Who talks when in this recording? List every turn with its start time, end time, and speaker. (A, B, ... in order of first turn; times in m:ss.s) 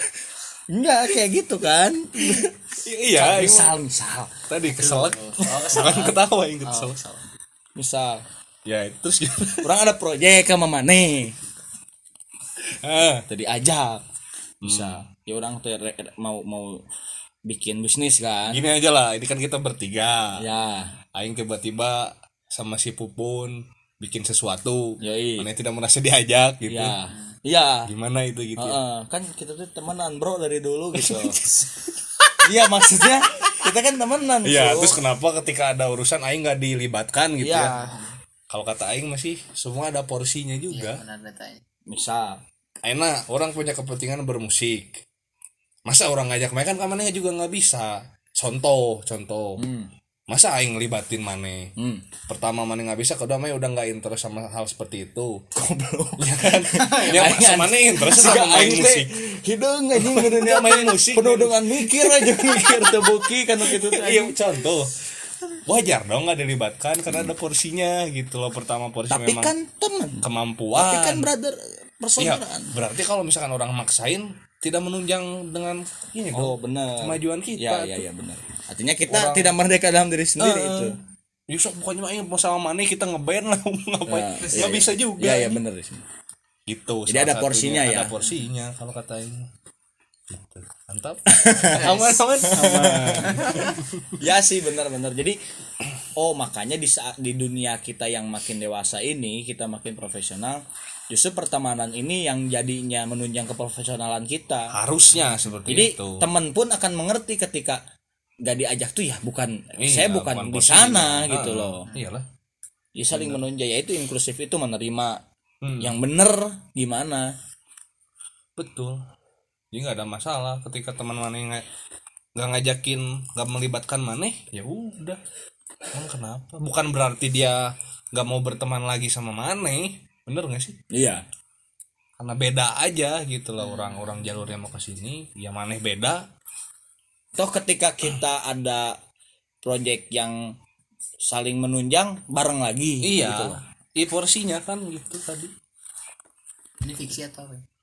0:00.7-0:02.6 A
0:02.3-0:03.8 B
0:03.1-0:04.4 A
0:04.5-0:07.0 B
0:04.7-0:07.2 C
0:07.8-0:08.2 A
0:08.6-0:09.7 B
0:09.6-0:11.4 A
0:12.6-0:13.3 B
0:13.3-0:14.0 A
0:14.6-0:15.0 B
0:14.6-0:16.8 A
0:17.5-0:18.6 A
0:18.5-0:20.4 B
0:20.4-0:21.0 A
0:21.1-0:27.0 B
0:25.0-0:25.5 A
0:26.7-0:27.9 A
0:27.1-0:27.4 C
0:27.9-0:28.8 B
0:28.6-0:31.4 A
0:31.0-0:31.4 B
0:31.2-0:31.8 C
0:32.4-0:35.0 A
0:34.4-0:37.7 B
0:37.4-0:38.0 A
0:37.8-0:38.1 C
0:38.5-0:41.0 B
0:40.7-0:41.6 C
0:41.9-0:42.4 A
0:42.8-0:45.0 B
0:45.9-0:49.6 B
0:49.6-0:49.9 A
0:50.3-0:51.7 B
0:51.8-0:52.0 A
0:52.3-0:55.4 B
0:55.6-1:04.4 A
0:56.2-0:59.1 B
0:56.8-0:57.2 C
1:00.0-1:04.9 B
1:05.7-1:09.5 B
1:09.1-1:10.2 A
1:10.2-1:11.3 B
1:10.7-1:12.7 A
1:12.2-1:18.1 B
1:16.3-1:21.0 A
1:19.1-1:19.5 B
1:20.4-1:21.0 B
1:21.5-1:25.6 B
1:24.1-1:26.0 A
1:24.4-1:24.9 C
1:26.7-1:29.5 B
1:27.1-1:28.2 A
1:28.2-1:28.5 C
1:30.3-1:34.2 B
1:31.3-1:33.6 A
1:31.7-1:32.7 C
1:33.4-1:33.7 C
1:34.2-1:35.4 A
1:36.2-1:44.8 A
1:44.7-1:46.3 B
1:45.7-1:47.8 A
1:48.4-1:51.9 A
1:49.8-1:52.3 B
1:53.0-1:55.2 A
1:53.1-1:53.4 B
1:55.6-1:56.0 B
1:55.8-1:57.3 A
1:58.6-1:59.0 B
1:59.7-2:01.6 B
2:02.4-2:05.2 B
2:05.9-2:10.8 B
2:10.9-2:11.2 A
2:12.2-2:16.3 B
2:13.6-2:14.5 C
2:17.4-2:19.0 A
2:19.6-2:20.5 A
2:21.2-2:23.6 A
2:23.0-2:25.5 B
2:26.8-2:27.6 C